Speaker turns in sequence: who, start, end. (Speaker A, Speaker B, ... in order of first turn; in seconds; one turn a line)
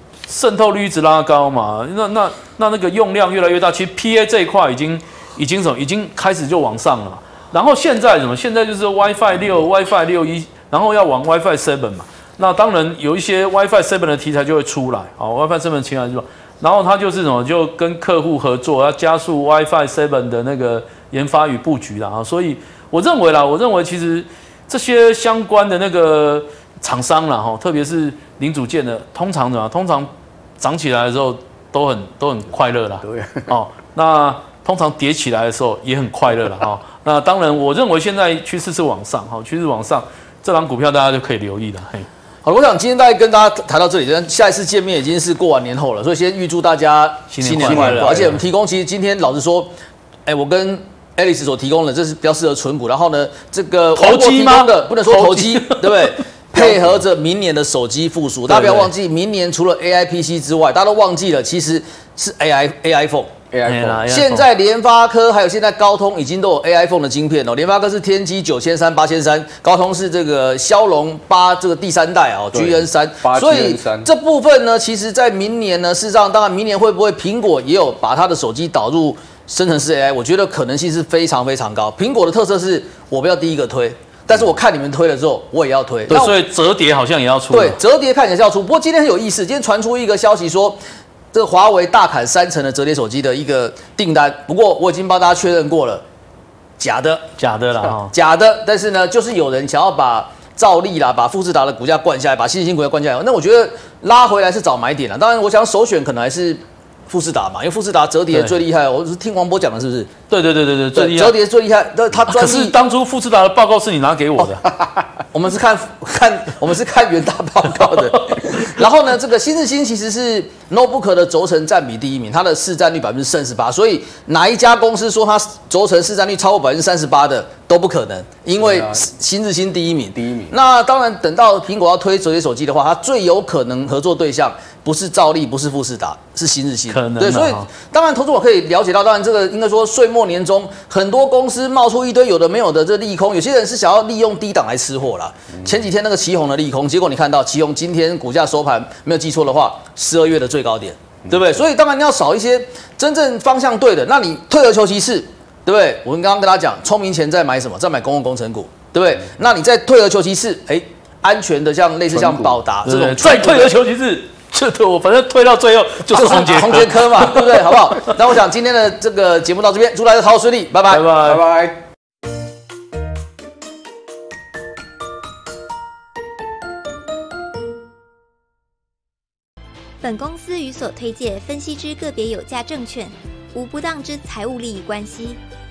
Speaker A: 0.3-42.1
Speaker B: 33.0-33.5
Speaker C: 42.4-49.7
Speaker A: 47.3-48.4
Speaker B: 47.6-48.0
Speaker C: 50.3-63.3
Speaker A: 54.0-56.2
Speaker B: 56.5-57.0
Speaker A: 58.5-58.9
Speaker B: 63.5-64.1
Speaker A: 63.7-64.5
Speaker C: 64.1-86.3
Speaker B: 72.5-74.1
Speaker A: 86.1-87.8
Speaker C: 87.5-90.8
Speaker C: 91.3-96.0
Speaker C: 96.8-97.3
Speaker A: 97.4-98.1
Speaker C: 97.8-110.1
Speaker A: 110.3-111.4
Speaker C: 110.9-112.8
Speaker A: 112.3-114.7
Speaker C: 115.3-163.7
Speaker A: 117.8-118.5
Speaker B: 128.6-129.1
Speaker B: 130.2-130.6
Speaker A: 136.9-137.7
Speaker B: 162.1-162.6
Speaker A: 162.8-168.1
Speaker C: 166.1-171.1
Speaker A: 170.9-171.4
Speaker B: 171.2-171.8
Speaker D: 180.0-185.4